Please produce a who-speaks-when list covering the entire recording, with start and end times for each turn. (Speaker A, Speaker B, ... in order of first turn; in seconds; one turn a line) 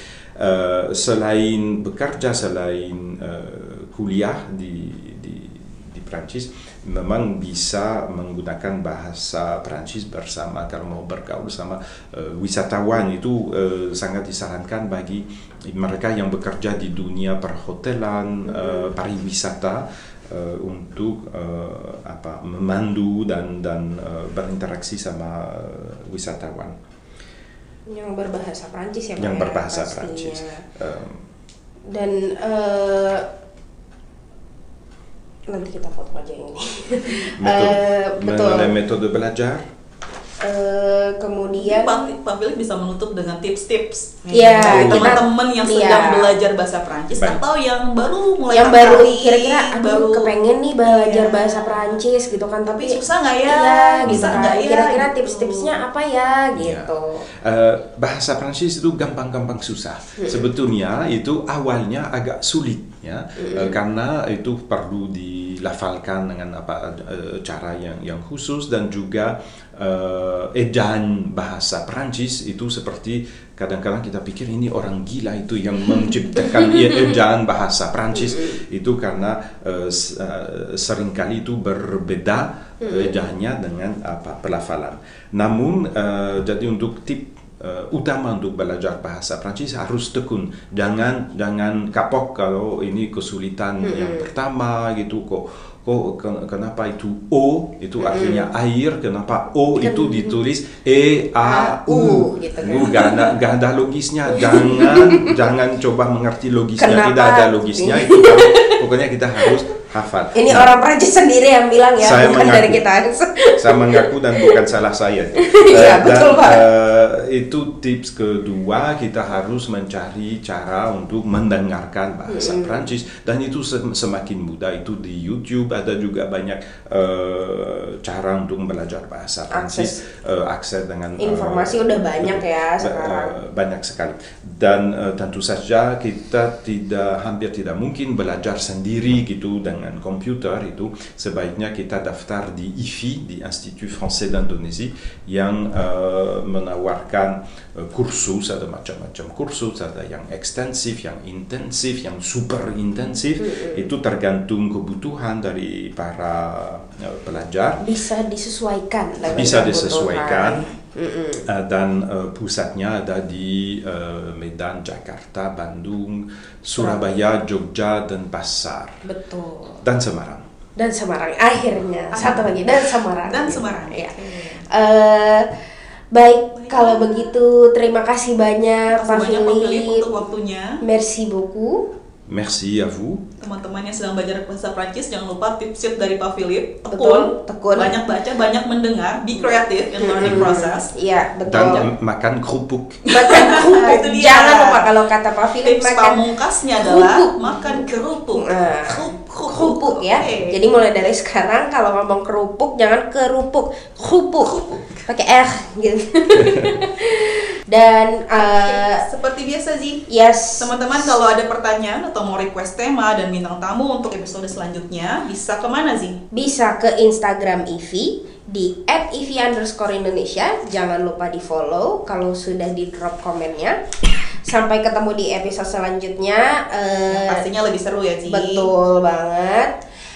Speaker A: 0.4-26.8
Speaker B: 18.5-18.9
Speaker B: 27.9-30.6
Speaker A: 29.2-31.2
Speaker B: 31.9-33.2
Speaker B: 35.5-38.7
Speaker A: 37.4-39.6
Speaker B: 40.4-42.1
Speaker C: 41.6-52.0
Speaker B: 44.3-46.4
Speaker A: 44.5-45.2
Speaker B: 48.5-57.3
Speaker C: 52.7-55.8
Speaker A: 54.1-54.5
Speaker A: 56.6-110.7
Speaker B: 60.2-60.5
Speaker B: 63.4-63.8
Speaker B: 76.5-76.8
Speaker B: 82.8-83.3
Speaker B: 93.8-94.3
Speaker B: 98.0-98.5
Speaker B: 99.8-100.4
Speaker B: 101.4-103.3
Speaker B: 104.3-105.3
Speaker B: 106.8-108.8
Speaker B: 110.3-114.6
Speaker A: 112.0-112.8
Speaker A: 113.6-157.8
Speaker B: 115.4-116.7
Speaker B: 122.3-122.9
Speaker B: 129.5-130.0
Speaker B: 131.2-133.4
Speaker B: 153.4-153.9
Speaker B: 157.8-161.5
Speaker A: 159.2-160.7
Speaker A: 161.5-169.0
Speaker B: 166.8-167.2
Speaker B: 169.1-169.8
Speaker A: 169.8-170.4
Speaker B: 170.8-174.2
Speaker C: 172.1-174.7
Speaker B: 174.7-175.5
Speaker B: 176.1-180.2
Speaker C: 176.6-177.3
Speaker C: 178.9-180.8
Speaker B: 180.8-181.9
Speaker A: 182.3-183.2
Speaker C: 183.4-190.9
Speaker B: 186.9-188.0
Speaker B: 189.3-191.9
Speaker A: 190.2-190.5
Speaker A: 191.5-193.1
Speaker C: 191.5-191.8
Speaker C: 193.1-195.0
Speaker B: 193.1-196.2
Speaker C: 195.6-200.6
Speaker B: 196.8-209.1
Speaker C: 204.4-205.0
Speaker C: 208.4-210.1
Speaker B: 210.1-211.1
Speaker C: 210.6-216.2
Speaker B: 216.3-223.8
Speaker B: 224.4-227.4
Speaker C: 227.1-228.7
Speaker B: 228.2-229.8